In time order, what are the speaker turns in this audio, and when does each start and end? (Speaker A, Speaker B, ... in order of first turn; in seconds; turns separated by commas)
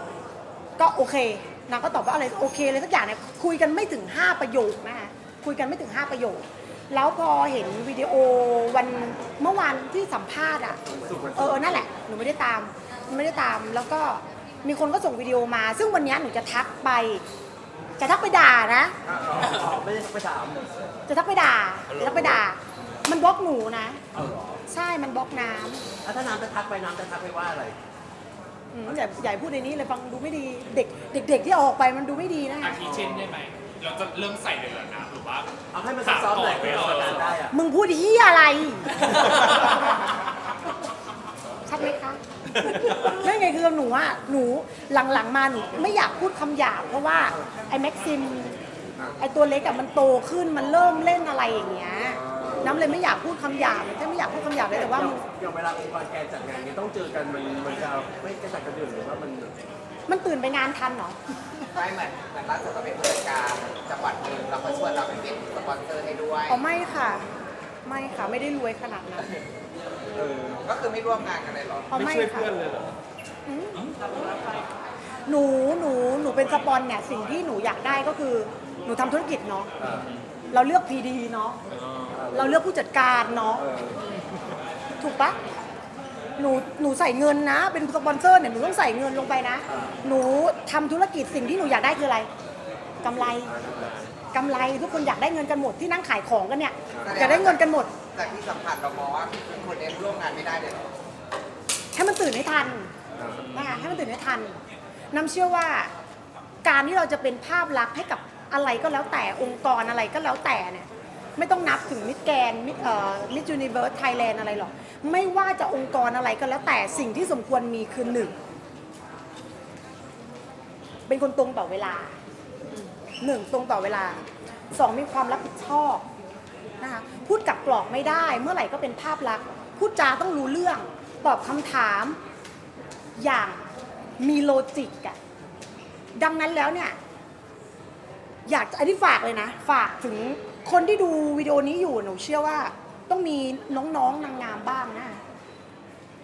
Speaker A: 0.8-10.8, Speaker B: 10.8-11.9, Speaker A: 11.3-17.2, Speaker A: 18.0-18.9, Speaker B: 19.0-20.7, Speaker A: 21.1-24.0, Speaker C: 21.9-22.4, Speaker B: 24.1-24.6, Speaker A: 24.7-25.8, Speaker B: 26.0-27.8, Speaker A: 28.7-32.8, Speaker B: 32.8-33.3, Speaker D: 32.8-35.5, Speaker B: 35.7-37.6, Speaker C: 36.0-37.3, Speaker D: 36.2-37.3, Speaker A: 37.5-39.7, Speaker A: 41.6-48.6, Speaker C: 42.5-43.1, Speaker A: 49.2-55.2, Speaker B: 52.2-52.9, Speaker B: 54.7-59.5, Speaker A: 60.1-61.2, Speaker E: 61.7-66.6, Speaker A: 66.5-67.3, Speaker A: 67.8-69.3, Speaker C: 70.2-70.6, Speaker E: 70.6-72.0, Speaker A: 71.9-72.5, Speaker C: 71.9-73.0, Speaker A: 73.5-73.9, Speaker A: 75.2-79.7, Speaker B: 79.8-80.1, Speaker C: 80.0-80.3, Speaker A: 80.5-81.6, Speaker C: 81.7-82.2, Speaker B: 82.1-82.6, Speaker A: 82.3-83.6, Speaker B: 83.6-84.0, Speaker A: 85.0-85.4, Speaker A: 86.4-92.3, Speaker B: 89.7-90.0, Speaker A: 93.0-93.5, Speaker B: 93.0-94.1, Speaker A: 94.3-97.9, Speaker B: 96.9-97.4, Speaker E: 97.0-100.9, Speaker A: 101.9-102.9, Speaker B: 103.2-103.5, Speaker C: 103.2-104.1, Speaker A: 103.5-104.5, Speaker A: 105.1-105.9, Speaker A: 106.6-118.3, Speaker A: 121.1-122.1, Speaker A: 123.2-126.0, Speaker A: 126.8-132.2, Speaker A: 133.2-133.7, Speaker A: 134.2-135.2, Speaker A: 136.2-137.0, Speaker A: 138.4-145.2